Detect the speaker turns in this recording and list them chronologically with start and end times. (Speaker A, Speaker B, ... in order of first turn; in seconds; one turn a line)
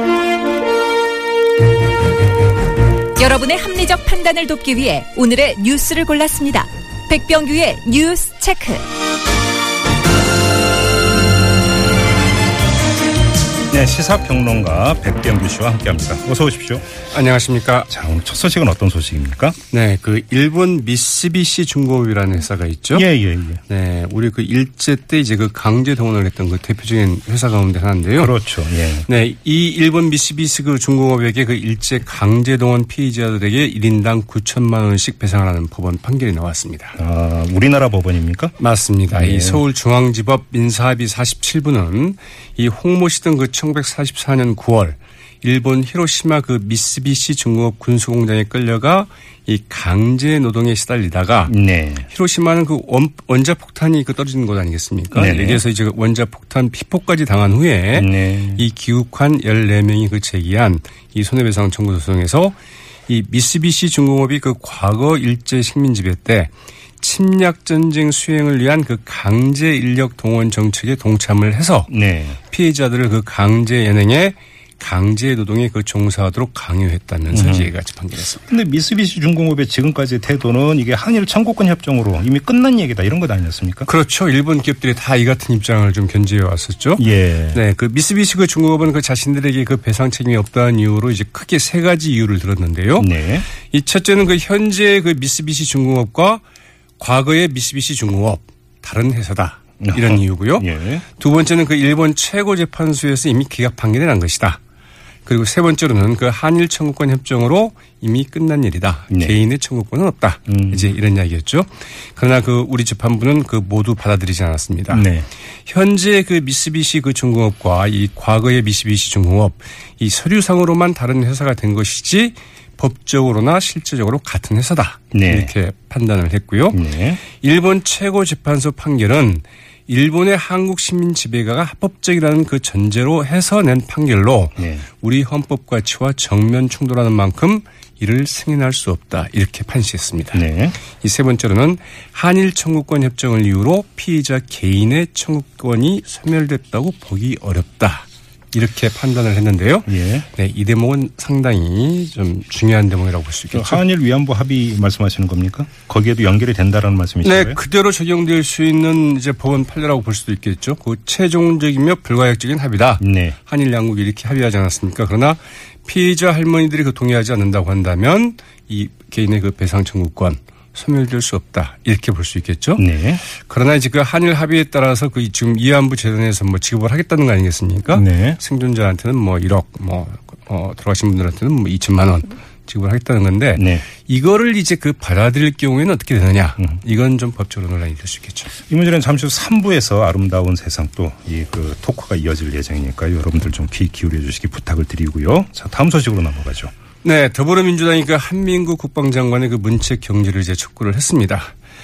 Speaker A: 3.2-8.8
Speaker B: 13.7-16.9
Speaker C: 17.1-17.9
Speaker B: 17.9-19.6
Speaker C: 19.7-23.1
Speaker B: 22.9-23.6
Speaker C: 23.7-28.3
Speaker B: 28.2-29.1
Speaker C: 29.1-37.0
Speaker B: 37.0-38.6
Speaker C: 38.6-62.6
Speaker B: 39.1-39.6
Speaker B: 51.5-52.1
Speaker B: 55.1-55.6
Speaker B: 58.0-58.6
Speaker C: 63.1-78.5
Speaker B: 71.9-72.4
Speaker B: 77.3-77.7
Speaker B: 78.5-83.9
Speaker C: 83.9-96.4
Speaker B: 87.0-87.6
Speaker B: 93.0-93.5
Speaker C: 97.0-104.6
Speaker B: 99.8-101.0
Speaker C: 105.2-115.1
Speaker B: 109.1-109.4
Speaker B: 110.5-110.9
Speaker B: 114.9-115.3
Speaker C: 115.7-153.8
Speaker B: 125.1-125.5
Speaker B: 126.7-127.2
Speaker B: 134.6-134.8
Speaker B: 140.3-140.8
Speaker B: 149.9-150.3
Speaker B: 153.5-157.6
Speaker C: 157.2-188.5
Speaker B: 163.0-163.4
Speaker B: 172.8-173.2
Speaker B: 177.9-178.4
Speaker B: 183.6-183.8
Speaker B: 188.7-196.7
Speaker C: 197.0-201.5